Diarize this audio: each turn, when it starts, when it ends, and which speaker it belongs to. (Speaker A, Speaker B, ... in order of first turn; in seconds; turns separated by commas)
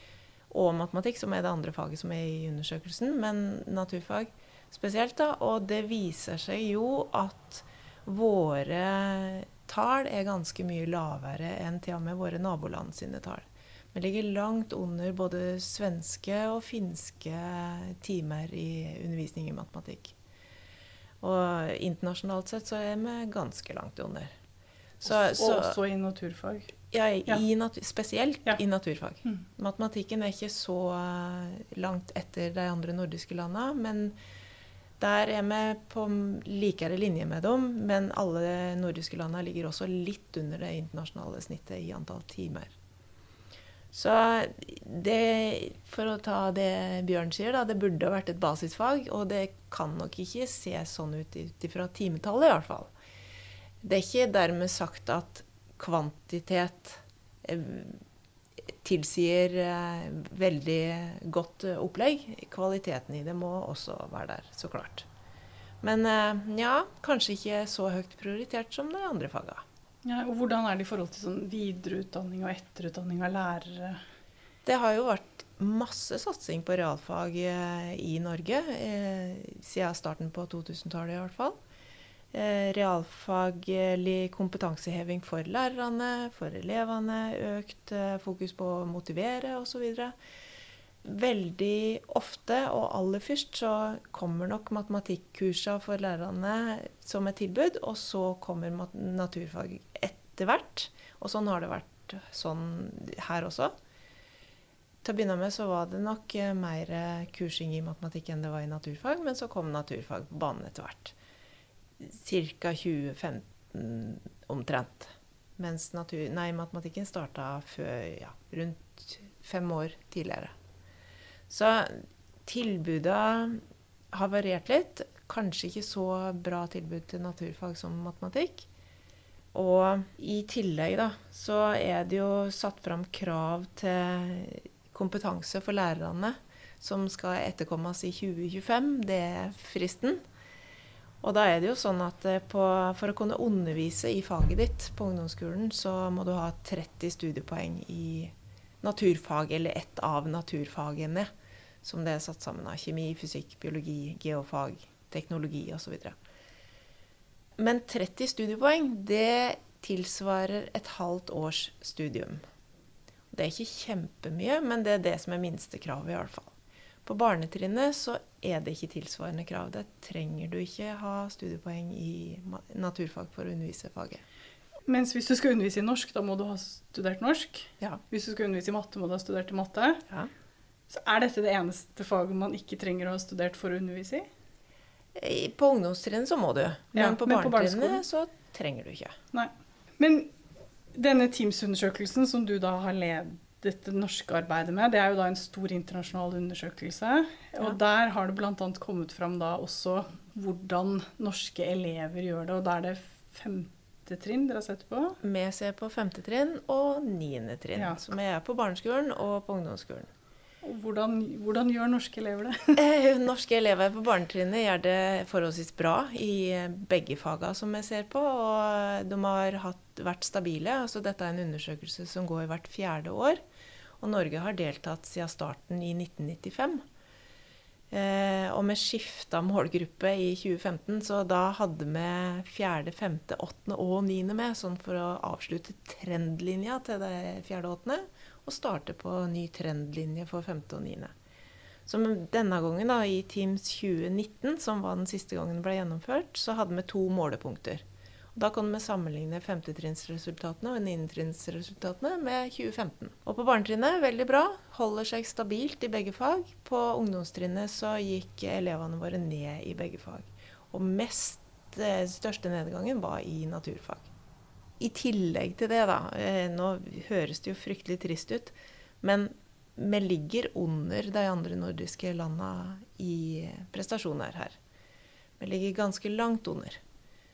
Speaker A: 0.5-20.1, Speaker A: 21.2-24.3, Speaker A: 25.0-25.8, Speaker B: 25.1-26.8, Speaker A: 26.9-34.1, Speaker A: 35.0-42.7, Speaker A: 43.9-52.9, Speaker A: 53.8-58.0, Speaker A: 58.8-65.1, Speaker A: 65.8-69.6, Speaker B: 70.0-74.0, Speaker A: 74.7-81.5, Speaker A: 82.3-90.1, Speaker A: 91.0-103.7, Speaker A: 105.0-111.1, Speaker A: 112.0-120.5, Speaker A: 121.5-123.6, Speaker A: 124.1-128.7, Speaker A: 129.5-140.2, Speaker A: 141.2-151.3, Speaker A: 151.8-156.2, Speaker A: 157.6-162.4, Speaker A: 163.3-166.5, Speaker A: 167.1-174.2, Speaker B: 174.9-180.0, Speaker B: 180.9-184.3, Speaker A: 185.2-189.1, Speaker B: 186.9-188.0, Speaker B: 189.3-190.3, Speaker B: 190.9-205.2, Speaker A: 205.2-210.1, Speaker B: 210.6-212.8, Speaker A: 212.8-223.4, Speaker A: 224.0-226.8, Speaker A: 227.9-241.1, Speaker A: 241.9-247.8, Speaker A: 248.3-264.1, Speaker A: 264.8-274.6, Speaker A: 275.4-276.8